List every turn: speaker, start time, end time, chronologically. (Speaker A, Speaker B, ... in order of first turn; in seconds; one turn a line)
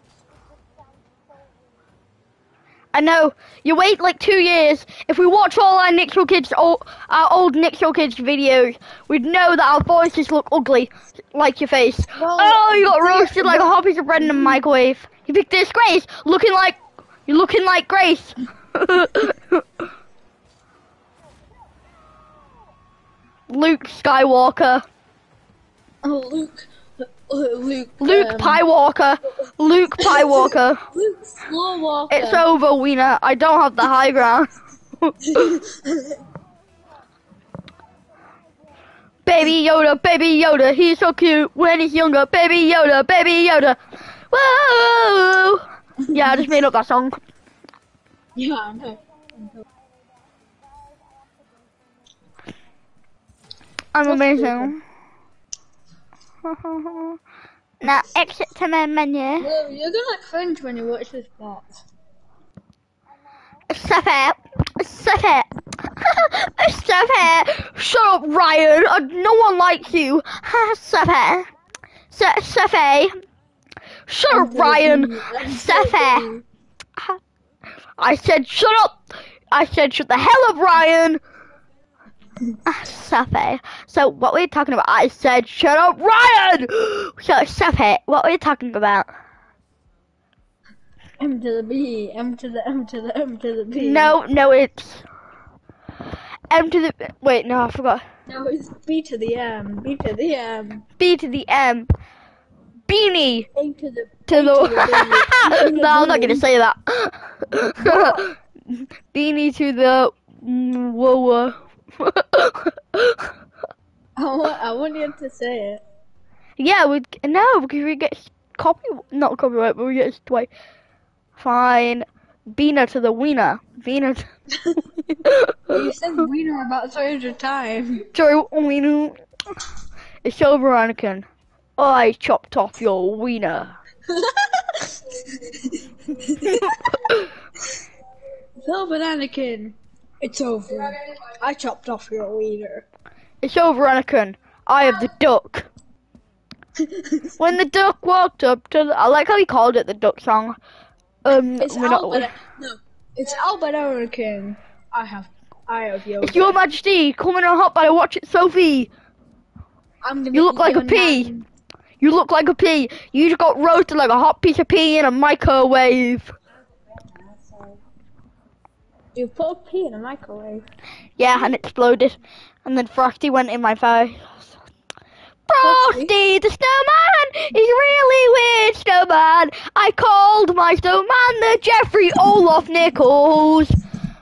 Speaker A: 2.9-19.6
Speaker B: 12.1-14.6
Speaker A: 23.5-24.9
Speaker B: 26.0-28.6
Speaker A: 28.0-30.8
Speaker B: 30.0-32.5
Speaker A: 32.1-35.6
Speaker B: 35.2-36.2
Speaker A: 39.2-43.8
Speaker A: 44.3-47.2
Speaker B: 46.0-46.6
Speaker B: 48.4-49.6
Speaker A: 53.9-54.8
Speaker B: 54.0-54.8
Speaker A: 56.4-57.2
Speaker A: 57.8-59.5
Speaker B: 59.4-61.8
Speaker A: 63.7-71.5
Speaker A: 72.1-73.1
Speaker A: 74.1-76.3
Speaker B: 74.3-76.5
Speaker A: 78.0-81.2
Speaker A: 82.7-89.1
Speaker B: 91.2-94.2
Speaker A: 93.8-95.0
Speaker A: 96.5-98.0
Speaker B: 98.3-100.8
Speaker A: 101.0-101.9
Speaker A: 102.9-103.5
Speaker B: 103.5-106.5
Speaker A: 104.3-113.3
Speaker B: 107.8-108.2
Speaker B: 114.2-115.8
Speaker A: 116.6-120.5
Speaker A: 121.4-124.3
Speaker B: 124.5-124.8
Speaker A: 125.1-125.8
Speaker B: 125.7-128.1
Speaker A: 128.1-129.2
Speaker A: 130.2-131.3
Speaker A: 131.8-133.7
Speaker B: 134.1-137.8
Speaker A: 136.4-137.3
Speaker B: 138.6-142.9
Speaker A: 143.4-145.7
Speaker B: 146.8-147.4
Speaker A: 147.4-150.6
Speaker A: 151.2-152.3
Speaker B: 151.6-156.6
Speaker A: 156.2-158.9
Speaker B: 160.0-161.5
Speaker A: 160.3-161.3
Speaker A: 162.0-166.3
Speaker B: 167.3-167.8
Speaker B: 169.1-170.6
Speaker A: 171.2-174.5
Speaker A: 175.5-183.8
Speaker B: 175.6-176.1